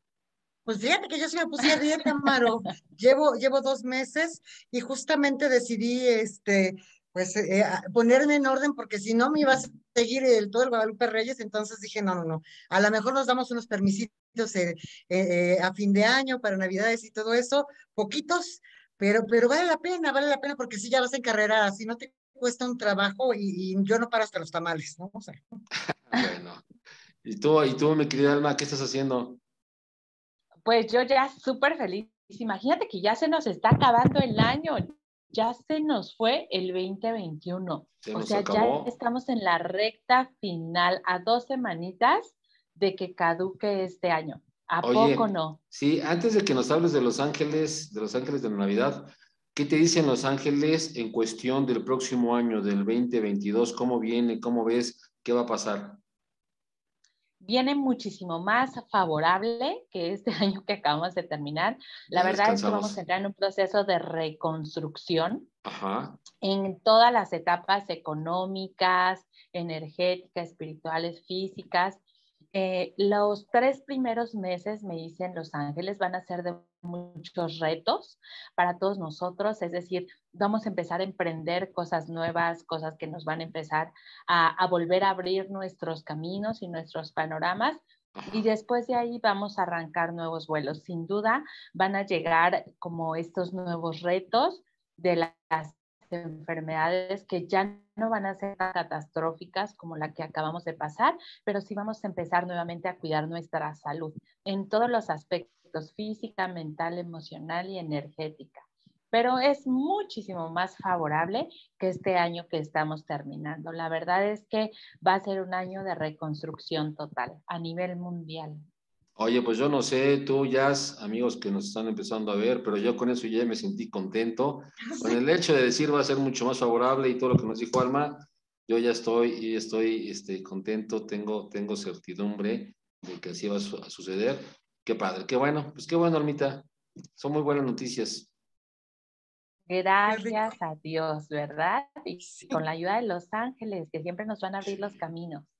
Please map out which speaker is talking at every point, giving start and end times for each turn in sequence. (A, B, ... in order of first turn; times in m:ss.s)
0:00.7-0:25.4 A
0:26.0-0:26.6 B
0:27.2-0:29.4 B
0:30.6-0:45.6 C
0:38.0-0:38.9 B
0:44.8-0:56.0 B
0:57.4-1:05.5 C
1:02.1-1:03.0 B
1:05.6-1:06.2 B
1:06.4-1:12.0 C
1:12.5-1:27.8 C
1:28.2-1:28.5 B
1:28.3-1:58.6 C
1:59.2-2:18.3 B
2:04.9-2:05.2 A
2:19.7-2:25.5 C
2:20.1-2:20.5 A
2:24.6-2:24.9 B